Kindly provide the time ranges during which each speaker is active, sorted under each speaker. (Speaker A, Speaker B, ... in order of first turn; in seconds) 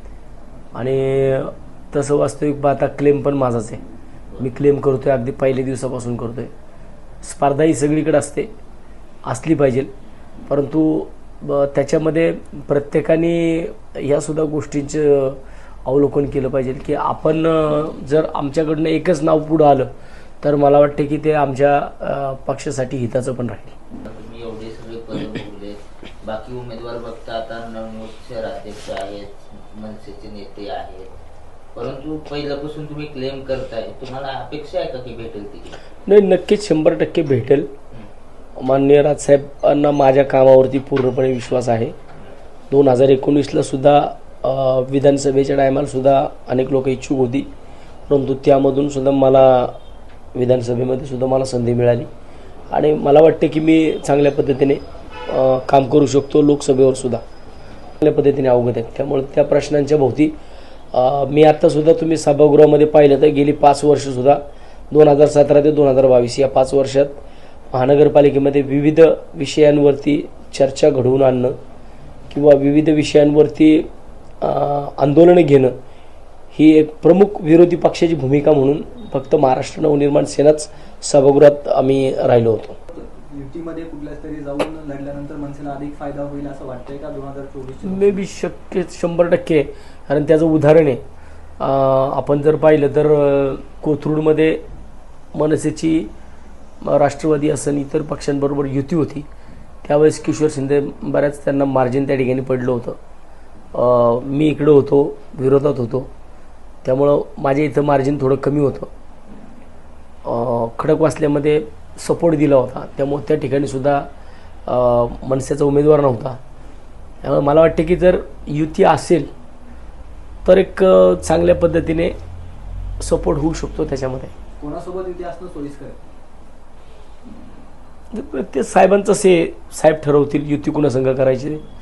Speaker A: 0.7-3.8, 4.4-6.5, 7.2-8.5, 9.2-9.9, 10.5-19.9, 20.4-23.8, 36.0-37.7, 38.6-41.9, 42.7-47.5, 48.1-49.8, 50.3-52.1, 52.7-57.2, 58.0-60.3, 60.9-64.4, 64.9-67.2, 67.7-71.5, 72.3-73.9, 74.4-75.7, 76.5-82.8, 87.8-91.0, 91.6-94.6, 95.3-96.1, 96.8-99.3, 99.8-103.0, 103.7-106.1, 106.8-108.9, 110.2-114.1, 114.7-116.4, 117.2-119.3, 120.4-122.2, 123.0-124.3, 128.1-131.6
Speaker B: 4.3-4.5, 24.0-31.2, 31.7-35.8
Speaker C: 82.9-88.2, 124.6-126.0